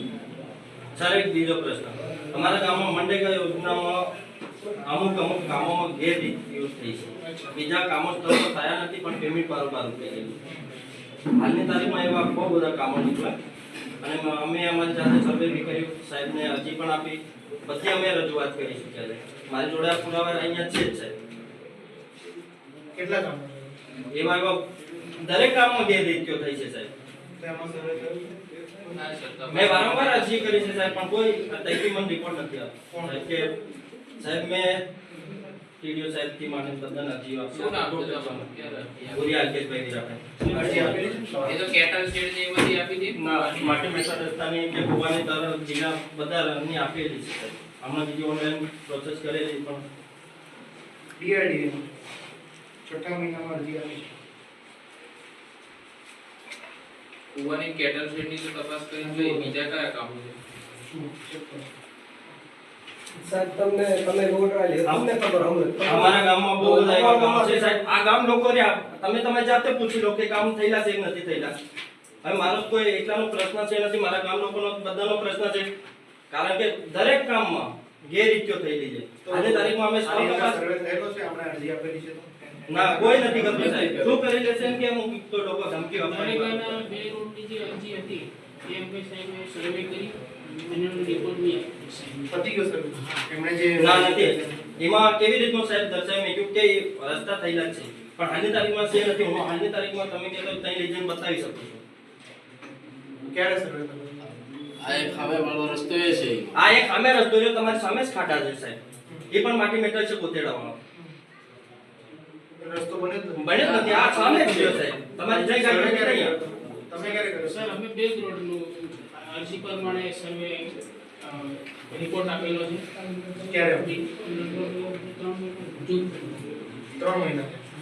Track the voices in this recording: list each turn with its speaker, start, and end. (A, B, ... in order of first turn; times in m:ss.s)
0:01.0-0:04.0 A
0:04.8-0:10.4 A
0:07.2-0:07.6 B
0:11.4-0:13.3 A
0:14.0-0:21.2 A
0:22.9-0:23.7 B
0:24.1-0:24.6 A
0:25.2-0:26.9 A
0:27.4-0:29.0 B
0:28.9-0:31.0 C
0:29.5-0:33.5 A
0:32.9-0:33.4 B
0:34.2-0:34.8 A
0:35.8-0:38.5 A
0:37.5-0:39.2 C
0:39.1-0:41.4 A
0:40.4-0:41.6 B
0:41.4-0:43.9 C
0:43.2-0:49.8 A
0:51.2-0:51.8 B
0:52.8-0:54.1 B
0:57.3-1:00.4 C
0:59.0-0:59.5 B
1:00.9-1:01.7 B
1:03.2-1:07.8 D
1:04.8-1:05.1 A
1:05.8-1:11.6 A
1:12.2-1:15.7 A
1:16.3-1:20.6 A
1:19.2-1:24.0 B
1:22.7-1:26.8 A
1:23.4-1:24.2 E
1:26.1-1:32.4 F
1:32.3-1:34.6 B
1:33.0-1:33.2 F
1:33.8-1:41.8 A
1:43.2-1:44.1 B
1:44.8-1:46.6 E
1:46.6-1:48.8 A
1:49.3-1:50.8 A
1:52.6-1:53.8 B
1:53.4-1:56.3 A
1:53.6-1:54.9 E
1:55.3-1:57.8 B
1:57.5-2:02.9 F
2:03.5-2:03.9 B
2:03.8-2:06.4 F
2:07.0-2:07.6 B